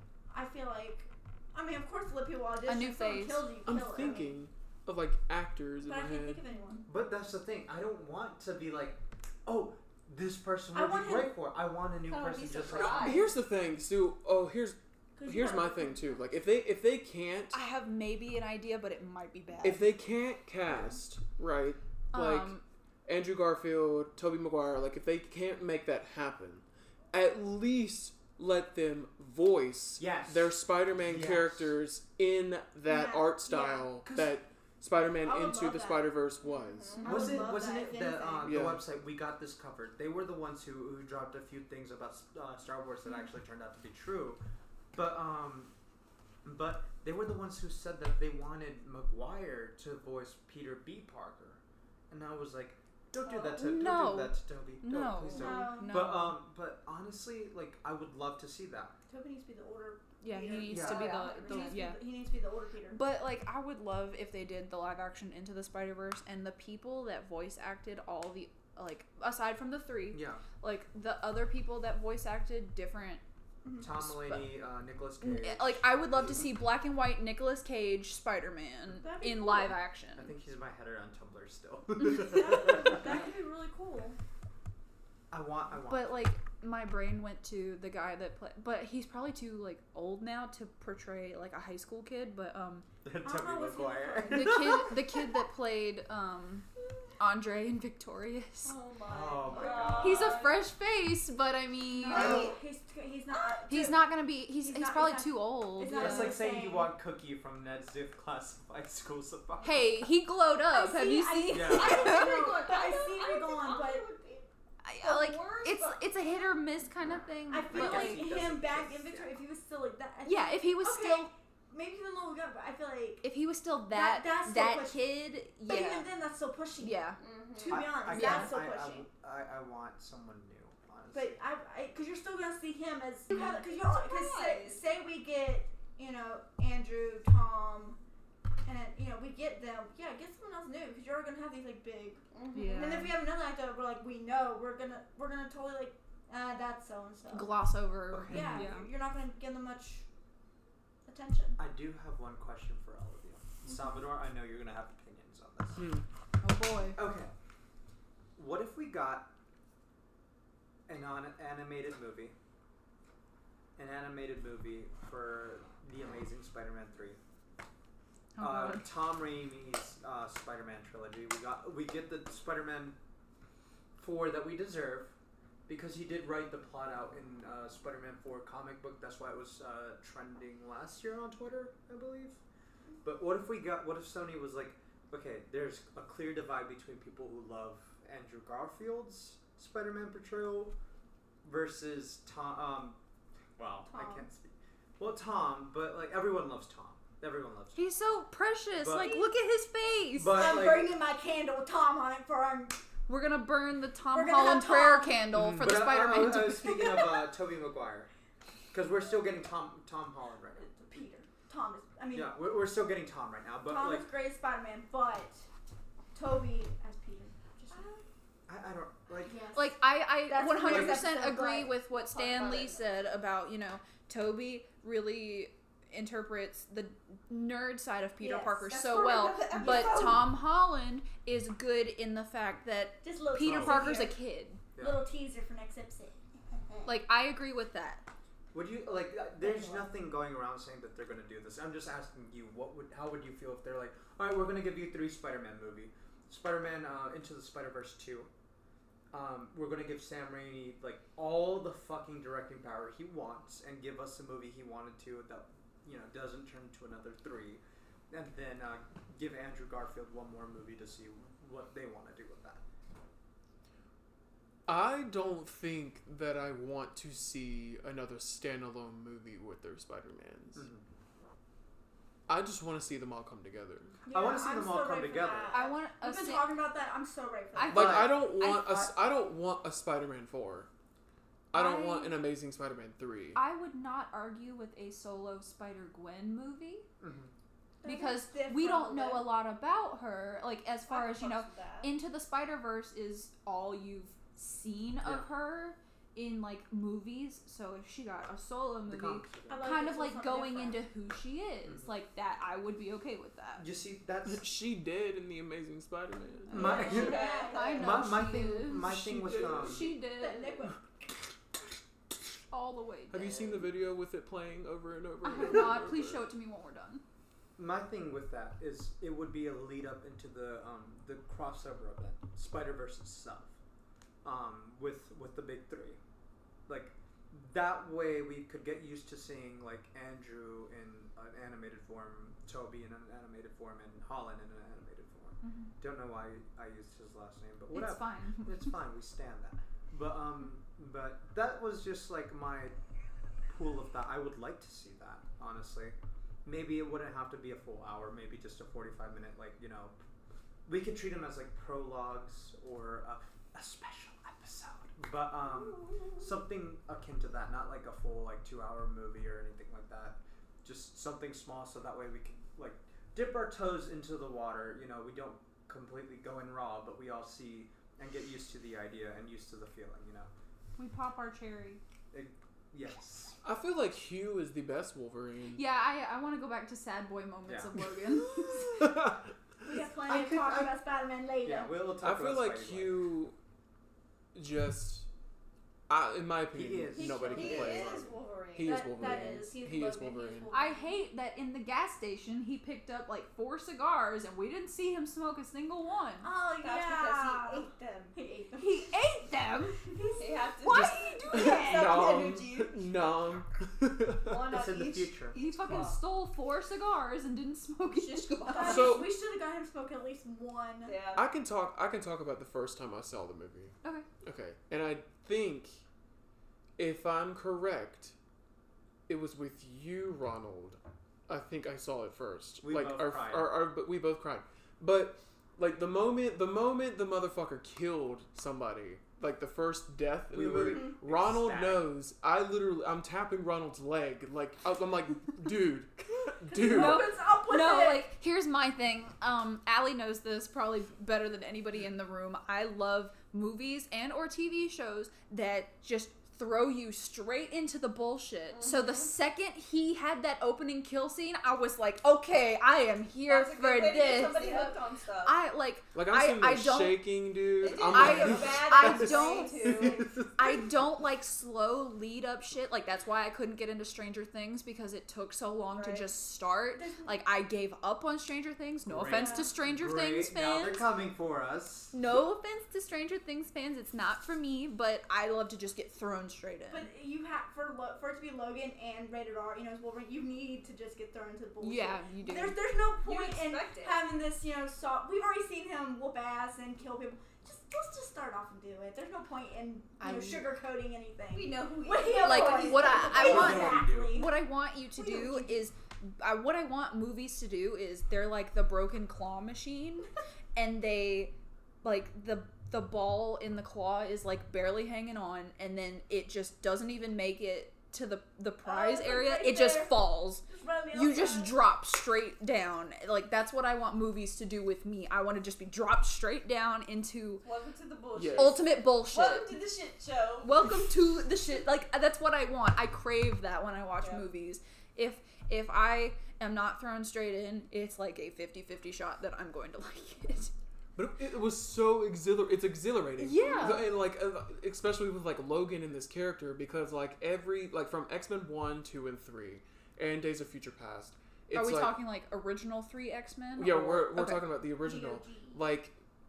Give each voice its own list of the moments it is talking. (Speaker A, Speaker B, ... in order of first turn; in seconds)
Speaker A: 0.3-4.3, 5.8-6.9, 10.7-11.3, 15.2-16.2, 32.9-33.9, 35.2-36.2, 37.0-38.6, 53.2-53.6, 55.3-56.1, 59.1-63.0, 73.6-73.9, 79.0-79.8, 82.0-84.2, 93.2-94.6, 99.5-100.7, 102.0-104.1, 104.6-106.9, 110.6-114.0, 117.5-123.2, 123.9-125.0, 125.6-127.0, 127.6-129.1, 131.1-138.0, 138.6-147.5, 148.3-150.0, 151.0-151.6, 153.7-154.0, 193.9-194.3, 200.3-202.8, 204.1-205.2, 206.6-207.0, 210.5-212.3, 213.7-215.5, 216.1-217.9, 219.2-221.7, 228.2-228.6, 229.5-230.2, 233.0-234.2, 234.8-236.2, 274.1-277.8, 287.8-289.3, 299.5-300.8, 306.5-308.1, 309.7-310.8, 379.6-381.7, 386.9-388.1, 388.6-391.0, 396.2-398.9, 399.8-400.8, 408.4-411.0, 436.5-438.1, 454.4-454.7, 458.9-459.8, 466.8-467.1, 469.1-469.5, 476.7-494.4, 495.0-495.6, 508.6-511.6, 544.8-545.6
Speaker B: 2.6-3.5, 17.5-19.9, 22.1-22.6, 36.9-37.4, 53.5-56.4, 60.2-62.0, 62.9-73.2, 73.8-74.5, 75.2-80.3, 85.9-92.8, 94.3-96.7, 97.2-98.8, 100.0-102.5, 103.7-106.3, 109.6-112.5, 114.8-118.2, 120.2-121.3, 123.2-126.1, 126.8-127.2, 128.1-128.5, 142.5-143.2, 147.3-148.9, 156.4-157.0, 168.3-168.9, 197.7-200.6, 203.1-207.0, 219.5-234.6, 236.8-238.1, 275.5-276.5, 277.5-278.9, 281.5-282.2, 283.3-286.9, 287.8-303.7, 306.5-310.6, 312.5-313.6, 315.2-317.0, 335.4-335.7, 337.7-338.8, 370.8-371.8, 375.5-378.9, 390.5-396.3, 398.6-399.8, 400.6-402.1, 405.4-408.9, 436.6-457.1, 457.8-470.9, 471.9-476.9, 481.6-482.6, 490.0-490.5, 492.2-517.4, 518.3-519.5, 520.4-530.5, 533.2-533.9, 541.5-544.4
Speaker C: 3.6-6.4, 12.7-17.6, 19.6-22.5, 23.1-37.0, 38.4-38.8, 155.8-156.0, 264.7-270.6, 272.3-273.9, 277.7-280.7, 281.5-283.4, 304.2-306.8, 309.1-309.6, 313.1-316.2, 373.4-375.6, 378.2-379.2, 382.0-383.3, 384.3-385.1, 385.9-388.0, 388.5-390.5, 400.8-404.5, 408.6-409.1, 411.1-415.8, 416.8-418.1, 419.1-437.1, 455.9-460.6, 493.2-494.0, 518.1-518.6, 530.9-542.0, 543.5-546.0
Speaker D: 6.9-13.2, 30.0-31.7, 34.0-34.4, 37.0-44.4, 44.9-45.7, 46.4-51.6, 52.1-59.0, 60.7-61.1, 70.1-70.4, 73.8-76.1, 80.2-83.2, 85.3-86.2, 93.0-95.0, 99.0-100.2, 102.1-102.5, 105.9-110.0, 111.5-112.1, 117.7-119.3, 127.7-131.4, 148.1-148.7, 151.6-155.9, 156.9-157.3, 158.3-159.3, 160.9-162.3, 163.8-167.2, 168.4-172.9, 174.0-175.1, 175.7-182.4, 183.0-190.7, 191.4-193.0, 193.6-197.8, 198.8-199.2, 200.1-200.9, 205.3-208.1, 208.7-210.7, 212.1-214.1, 218.5-219.4, 220.6-221.0, 233.4-233.9, 234.7-235.0, 238.5-248.3, 249.1-262.6, 270.5-270.8, 274.1-275.6, 277.7-278.9, 287.0-287.3, 298.9-299.8, 301.6-301.9, 303.6-304.4, 306.5-309.9, 317.6-323.5, 324.2-326.0, 326.7-342.7, 343.5-350.0, 350.6-370.3, 372.1-373.3, 377.4-377.7, 380.1-380.8, 381.4-383.1, 386.5-388.1, 404.5-405.9, 422.6-423.6, 430.3-431.9, 468.8-471.9, 493.1-494.2
Speaker E: 12.1-13.3, 36.6-37.2, 60.7-61.9, 98.6-100.5, 102.0-102.6, 103.3-103.7, 111.6-114.5, 115.0-116.0, 127.2-127.8, 133.3-134.8, 142.3-143.1, 217.7-218.0, 221.9-223.0, 228.7-230.2, 236.5-236.9, 290.9-291.9, 306.8-307.7, 387.3-389.3, 396.6-398.2, 400.2-402.8, 404.2-406.0, 407.9-408.9, 410.8-411.3, 448.5-449.1, 453.2-455.4, 457.6-460.1, 465.7-466.1, 483.0-484.0, 491.3-493.6, 517.4-521.0, 524.0-524.3